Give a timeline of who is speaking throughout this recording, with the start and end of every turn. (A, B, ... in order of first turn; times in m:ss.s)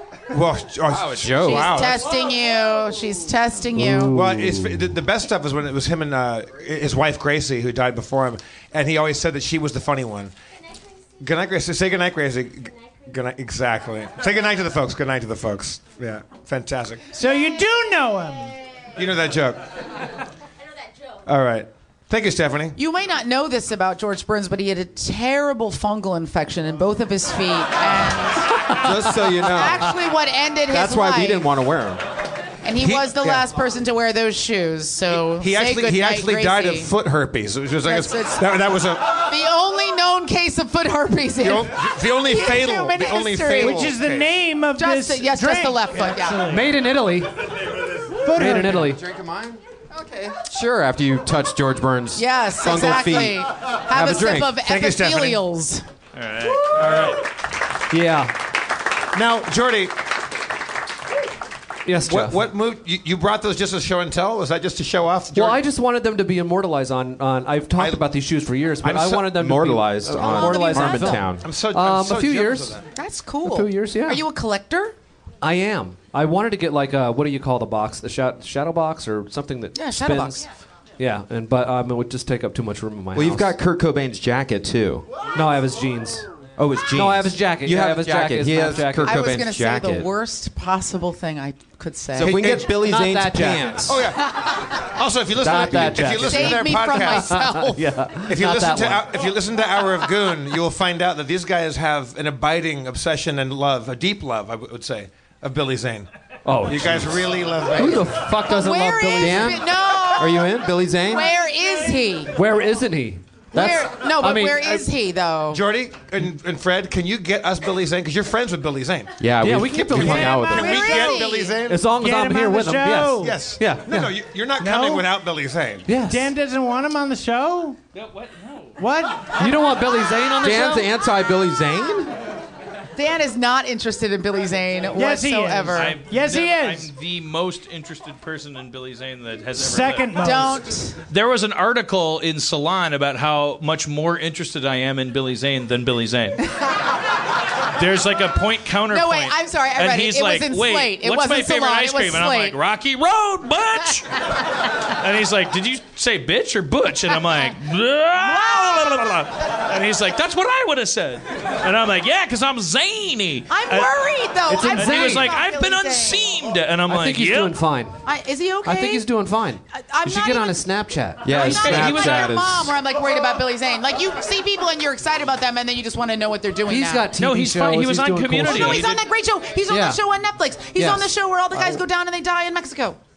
0:00.3-0:02.1 A
0:00.9-0:02.0 B
0:01.4-0:04.2 C
0:03.7-0:04.9 D
0:04.1-0:10.3 A
0:11.2-0:17.0 A
0:17.1-0:18.5 E
0:19.0-0:19.7 A
0:21.2-0:22.7 A
0:22.7-0:28.6 C
0:28.7-0:29.3 D
0:28.7-0:30.0 B
0:29.5-0:31.5 C
0:30.7-0:32.0 B
0:32.6-0:36.9 C
0:32.8-0:33.4 A
0:35.1-0:39.2 A
0:37.8-0:38.6 C
0:39.3-0:43.9 C
0:41.4-0:44.4 A
0:43.6-0:46.7 E
0:44.8-0:46.5 C
0:46.5-0:47.3 D
0:48.2-0:48.9 E
0:48.4-0:49.0 D
0:48.4-0:54.6 B
0:52.2-0:55.8 C
0:54.5-0:55.4 A
0:56.1-0:57.2 F
0:57.9-0:58.4 D
0:59.1-0:59.9 A
1:01.8-1:02.5 D
1:02.0-1:05.6 A
1:05.3-1:12.8 D
1:07.8-1:08.1 A
1:08.8-1:11.4 B
1:10.2-1:11.2 C
1:11.4-1:12.8 A
1:12.9-1:14.9 C
1:13.4-1:14.2 D
1:15.4-1:20.4 D
1:19.7-1:20.4 C
1:21.0-1:23.6 D
1:23.1-1:25.1 B
1:25.3-1:26.3 D
1:26.6-1:30.1 B
1:26.9-1:29.2 D
1:29.1-1:32.4 C
1:32.2-1:33.9 B
1:32.2-1:32.7 A
1:32.7-1:34.0 D
1:33.8-1:46.1 A
1:34.3-1:34.6 C
1:35.4-1:39.0 D
1:35.7-1:36.1 B
1:36.2-1:37.7 C
1:46.4-1:49.7 D
1:46.6-1:48.1 A
1:48.4-1:52.3 C
1:49.2-1:51.3 B
1:52.3-1:54.9 D
1:53.5-1:55.6 C
1:55.5-2:01.9 A
1:59.2-2:00.8 B
1:59.4-2:00.6 D
2:00.3-2:01.2 E
2:00.5-2:01.6 C
2:01.6-2:04.2 D
2:01.9-2:03.4 E
2:03.2-2:05.9 A
2:04.6-2:05.0 E
2:05.8-2:06.3 D
2:06.0-2:07.8 E
2:07.9-2:08.8 F
2:08.8-2:09.4 E
2:09.4-2:10.9 D
2:10.4-2:12.1 B
2:12.9-2:16.0 C
2:14.9-2:16.9 E
2:15.7-2:20.4 F
2:19.6-2:20.6 E
2:20.2-2:20.9 C
2:21.1-2:26.4 F
2:27.8-2:34.3 F
2:28.9-2:32.6 C
2:34.9-2:44.0 F
2:38.2-2:39.2 C
2:43.5-2:46.4 C
2:44.5-2:45.3 D
2:44.7-2:47.6 F
2:46.8-2:48.0 D
2:48.0-2:49.1 C
2:48.6-2:51.9 D
2:49.7-2:50.6 C
2:51.2-2:52.8 B
2:51.3-2:52.3 F
2:51.4-2:57.1 C
2:56.7-2:58.9 D
2:57.2-2:59.0 F
2:58.5-3:03.0 C
2:59.7-3:00.0 D
3:00.7-3:01.8 D